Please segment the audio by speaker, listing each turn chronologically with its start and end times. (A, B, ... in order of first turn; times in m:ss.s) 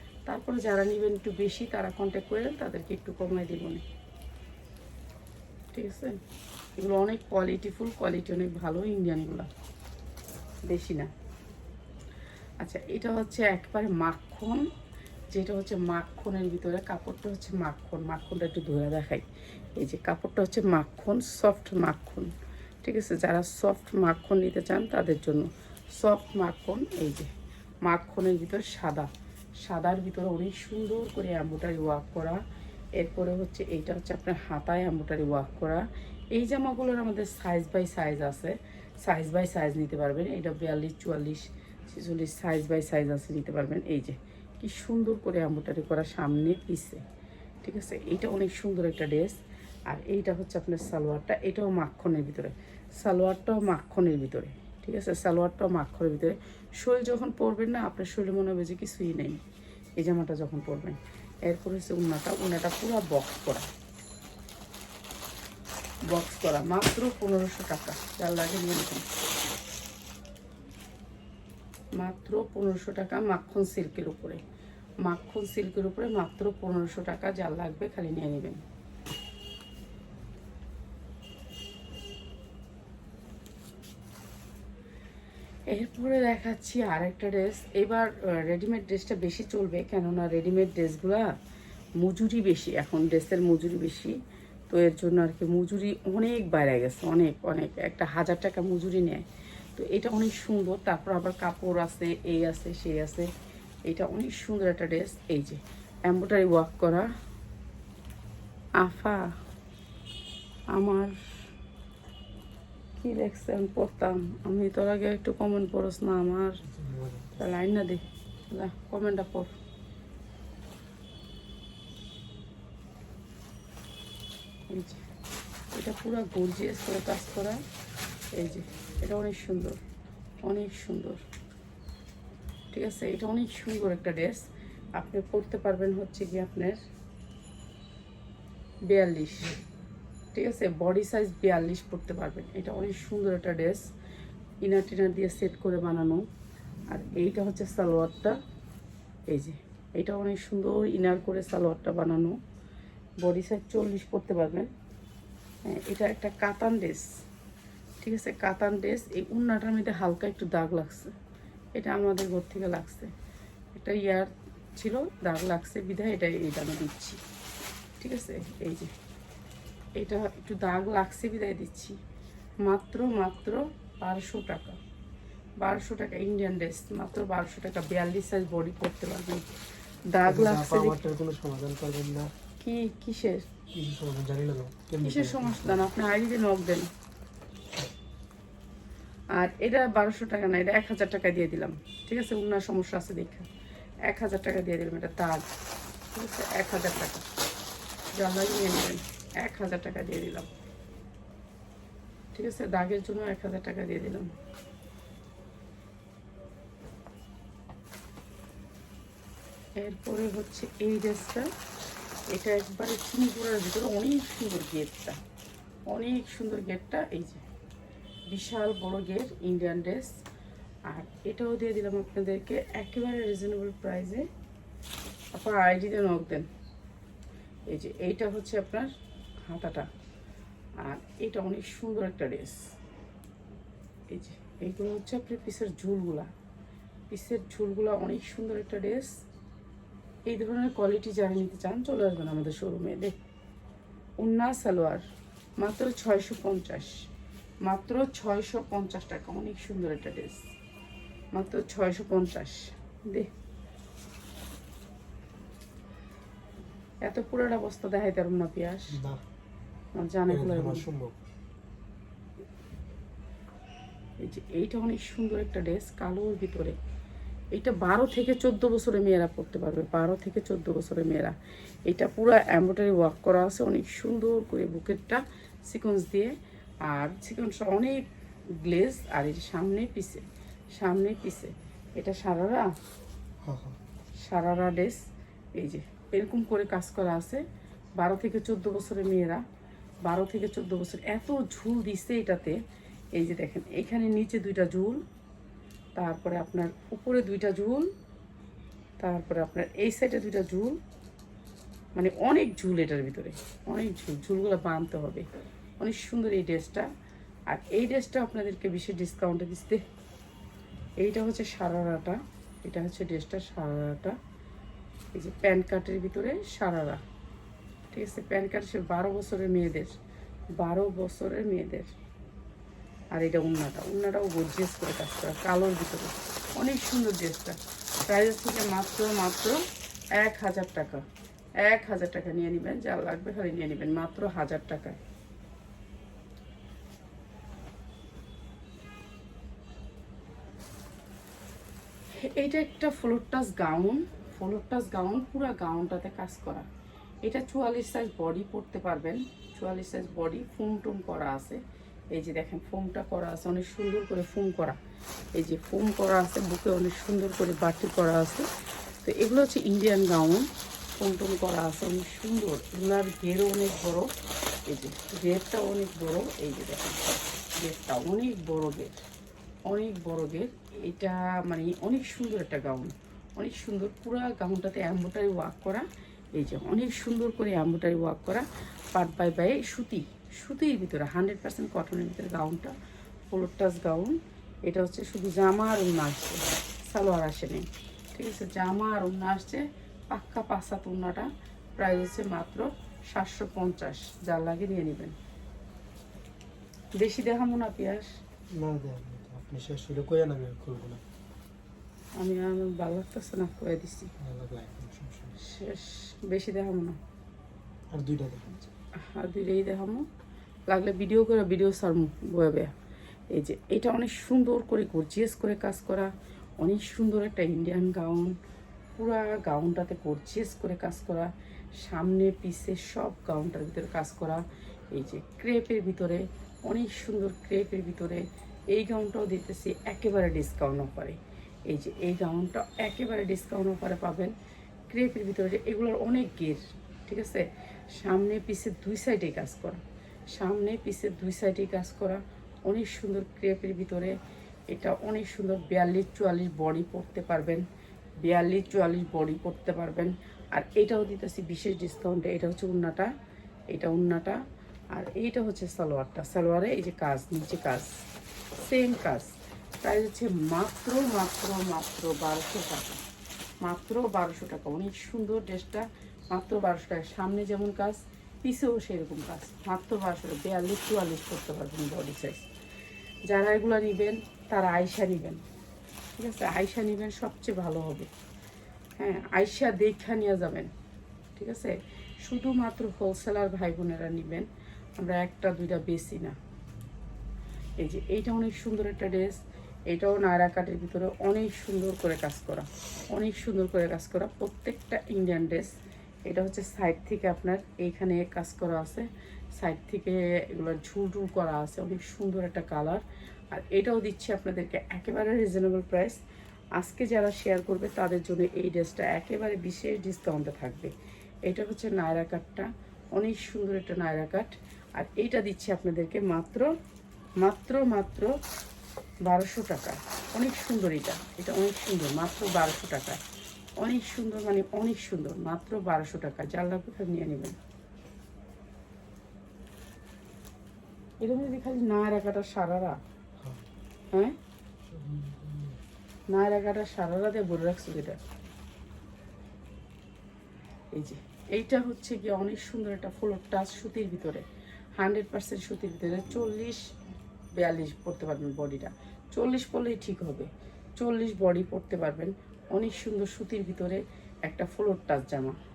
0:00.3-0:03.8 A
0:05.7-0:06.2 A
0:06.8-0:09.5 A
0:10.7-0:11.1 A
0:12.6-0:14.6 A
0:15.3-0:19.2 A
0:19.8-0:22.3 A
0:22.8-0:27.3 A
0:27.8-0:29.1 A
0:29.6-0:32.4 A
0:33.0-0:47.0 A
0:47.6-0:49.4 A
0:49.9-0:59.4 A
1:00.0-1:03.7 A
1:06.1-1:09.0 A
1:12.0-1:14.4 A
1:15.0-1:18.6 A
1:25.7-1:31.3 A
1:32.0-1:34.1 A
1:34.7-1:39.2 A
1:39.8-1:43.3 A
1:43.8-1:47.1 A
1:48.8-1:49.3 A
1:50.7-1:51.2 A
1:53.0-1:56.6 A
1:56.6-1:57.4 B
1:57.4-1:59.5 A
2:04.7-2:05.0 A
2:05.7-2:07.6 A
2:08.3-2:09.8 A
2:10.4-2:11.2 A
2:12.7-2:14.4 A
2:15.0-2:16.8 A
2:18.9-2:19.5 A
2:20.3-2:23.9 A
2:24.6-2:26.2 A
2:26.9-2:28.4 A
2:29.3-2:32.4 A
2:33.2-2:34.7 A
2:35.6-2:37.1 A
2:38.0-2:41.1 A
2:41.8-2:43.1 A
2:43.7-2:47.2 A
2:48.0-2:48.9 A
2:50.0-2:52.0 A
2:52.6-2:54.8 A
2:55.6-2:59.4 A
3:00.1-3:01.0 A
3:00.2-3:02.3 B
3:02.6-3:03.5 A
3:03.7-3:05.9 B
3:05.0-3:06.9 A
3:09.3-3:13.5 A
3:14.0-3:15.4 A
3:16.1-3:17.2 A
3:18.1-3:20.5 A
3:22.3-3:24.3 A
3:29.8-3:31.5 A
3:32.3-3:35.2 A
3:35.9-3:37.4 A
3:38.3-3:40.2 A
3:40.9-3:44.3 A
3:45.3-3:46.5 A
3:47.7-3:48.9 A
3:49.5-3:49.9 A
3:50.8-3:52.7 A
3:54.1-3:56.3 A
3:57.1-3:59.2 A
4:00.3-4:03.2 A
4:04.2-4:05.0 A
4:05.6-4:06.9 A
4:07.6-4:10.5 A
4:11.3-4:13.3 A
4:17.0-4:19.0 A
4:18.9-4:19.2 B
4:19.9-4:20.8 A
4:20.3-4:21.2 B
4:24.2-4:26.8 A
4:27.5-4:31.4 A
4:31.9-4:38.0 A
4:38.6-4:40.2 A
4:40.8-4:42.7 A
4:43.4-4:43.8 B
4:44.2-4:45.0 A
4:45.6-4:47.4 A
4:48.0-4:49.4 A
4:50.0-4:52.6 A
4:53.1-4:55.0 A
4:56.0-4:57.9 A
4:59.0-5:00.8 A
5:01.9-5:05.3 A
5:05.8-5:06.9 A
5:07.5-5:09.8 A
5:11.0-5:14.2 A
5:15.1-5:17.0 A
5:17.9-5:20.0 A
5:20.6-5:21.9 A
5:23.1-5:29.6 A
5:30.2-5:31.0 A
5:31.6-5:35.0 A
5:42.2-5:46.6 A
5:47.2-5:51.6 A
5:52.1-5:54.8 A
5:55.3-5:58.4 A
5:59.0-6:04.1 A
6:04.7-6:07.0 A
6:07.6-6:09.0 A
6:09.7-6:22.7 A
6:23.3-6:35.1 A
6:37.0-6:38.1 A
6:38.5-6:41.0 B
6:42.2-6:44.1 A
6:44.2-6:45.4 B
6:45.4-6:47.0 A
6:47.9-6:48.6 B
6:49.0-6:50.0 A
6:50.7-6:52.7 A
6:53.3-6:58.4 A
6:59.0-7:11.2 A
7:11.7-7:14.3 A
7:14.9-7:19.8 A
7:20.3-7:24.1 A
7:24.7-7:27.6 A
7:28.2-7:33.1 A
7:33.7-7:34.4 A
7:34.9-7:37.9 A
7:38.6-7:39.3 A
7:39.8-7:43.0 A
7:43.6-7:52.4 A
7:53.3-7:55.4 A
7:56.2-7:58.1 A
7:59.0-8:00.7 A
8:01.4-8:04.5 A
8:05.0-8:06.4 A
8:07.8-8:15.7 A
8:16.3-8:26.2 A
8:26.8-8:30.9 A
8:31.4-8:36.7 A
8:37.4-8:38.3 A
8:39.2-8:43.2 A
8:43.8-8:47.6 A
8:51.2-8:53.0 A
8:53.4-8:53.6 B
8:54.9-8:55.8 B
8:56.3-8:58.2 A
9:00.9-9:04.4 A
9:05.0-9:06.8 A
9:07.6-9:15.6 A